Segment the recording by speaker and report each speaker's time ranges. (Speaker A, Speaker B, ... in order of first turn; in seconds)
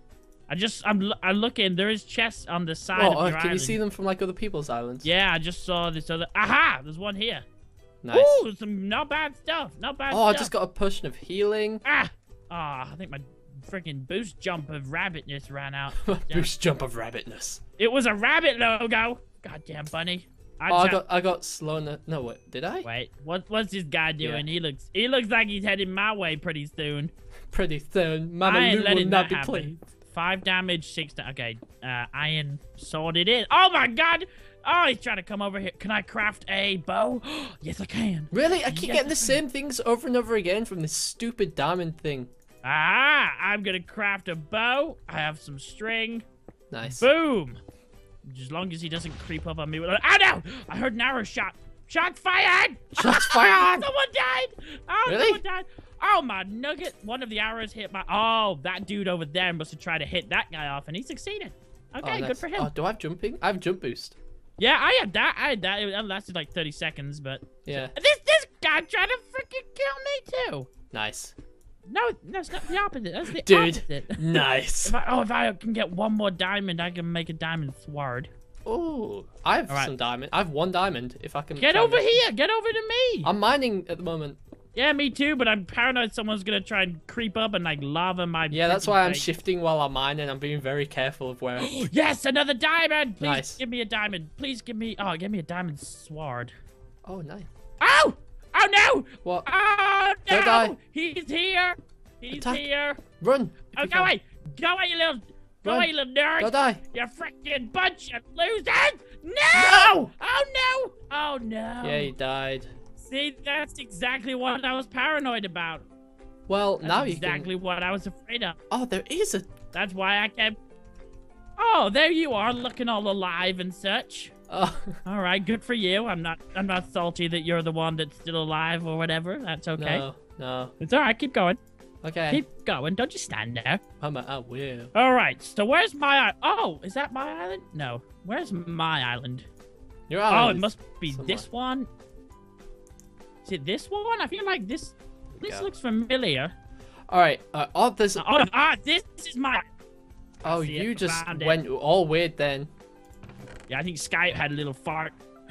Speaker A: 0.5-3.8, 5.0-7.4, 8.1-10.5, 11.8-16.5, 17.8-21.0, 22.8-27.1, 28.4-39.4, 42.6-46.2, 46.9-47.6, 48.2-62.7, 64.6-70.7, 71.9-78.3, 81.6-83.3, 84.8-89.3, 91.6-96.5, 97.8-103.0, 103.7-112.1, 113.0-115.8, 116.8-118.6, 119.7-120.5, 121.6-124.3, 125.0-130.0, 130.8-131.6, 132.3-133.8, 134.9-139.5, 140.3-141.9, 143.4-146.5, 148.2-149.7, 150.5-151.6, 153.7-155.2
Speaker B: 2.9-5.1, 8.0-8.3, 10.1-11.8, 15.9-17.6, 20.7-22.9, 24.2-24.4, 27.5-29.7, 38.3-42.3, 46.7-47.0, 53.0-53.9, 55.1-55.4, 62.0-64.2, 67.6-67.9, 70.9-71.3, 73.3-74.9, 78.7-82.2, 83.2-84.4, 88.5-91.7, 93.2-93.6, 97.0-97.5, 100.3-100.7, 102.3-102.6, 103.2-104.1, 105.6-106.8, 109.5-110.1, 111.8-112.7, 116.5-117.5, 118.7-119.5, 124.5-125.0, 129.8-130.7, 132.0-132.4, 134.0-134.9, 140.1-141.5, 145.4-145.7, 147.1-148.2, 150.4-152.7